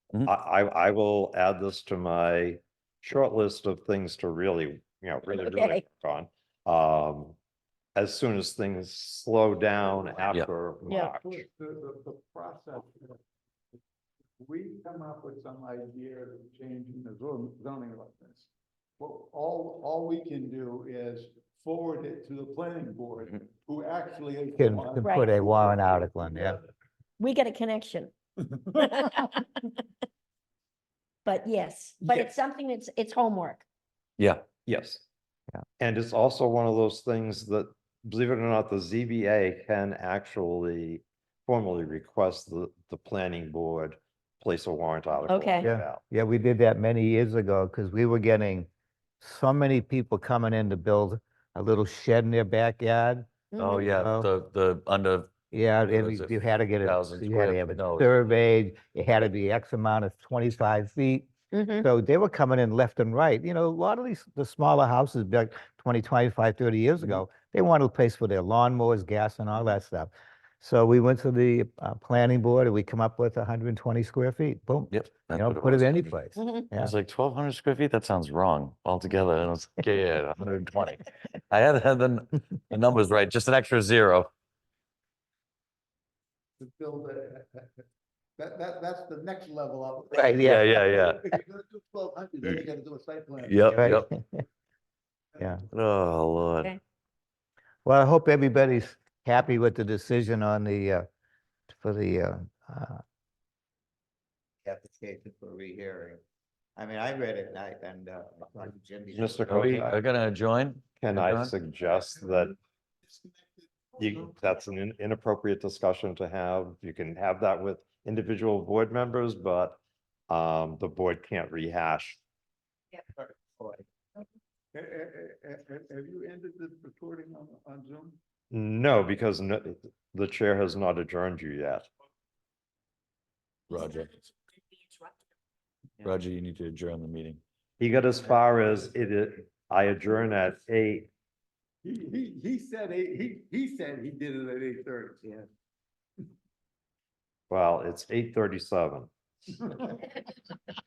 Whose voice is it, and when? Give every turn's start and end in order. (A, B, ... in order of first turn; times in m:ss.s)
0:00.2-0:07.4 A
0:05.3-0:05.8 B
0:08.0-0:11.4 A
0:11.0-0:13.2 C
0:14.4-0:26.2 C
0:24.6-0:26.6 D
0:25.0-0:25.3 B
0:27.2-0:28.1 B
0:28.7-0:29.7 B
0:31.2-0:33.6 B
0:34.2-0:34.4 E
0:34.7-0:35.0 A
0:35.8-0:46.0 A
0:45.3-0:45.7 B
0:45.6-0:48.7 D
0:49.2-0:53.3 D
0:53.5-0:53.9 B
0:53.6-0:55.3 E
0:53.9-0:54.3 D
0:55.5-1:16.9 D
0:55.9-0:58.2 E
1:01.5-1:01.9 B
1:14.9-1:16.2 E
1:16.4-1:16.7 B
1:16.8-1:24.3 E
1:26.6-1:27.8 C
1:28.4-1:33.7 C
1:30.1-1:30.9 D
1:30.4-1:31.2 E
1:33.4-1:34.1 E
1:33.7-1:34.4 D
1:35.7-1:36.7 E
1:37.8-1:41.0 D
1:41.7-1:43.0 D
1:44.6-1:46.2 D
1:46.8-1:49.8 D
1:49.1-1:50.0 A
1:49.5-1:51.5 E
1:51.0-1:52.6 A
1:52.0-1:52.5 C
1:53.1-1:54.3 C
1:54.0-2:02.2 A
2:03.1-2:03.8 C
2:04.7-2:08.2 C
2:08.5-2:11.9 A
2:13.7-2:14.3 E
2:16.0-2:17.4 E
2:17.8-2:21.1 A
2:21.8-2:25.4 C
2:27.5-2:29.1 A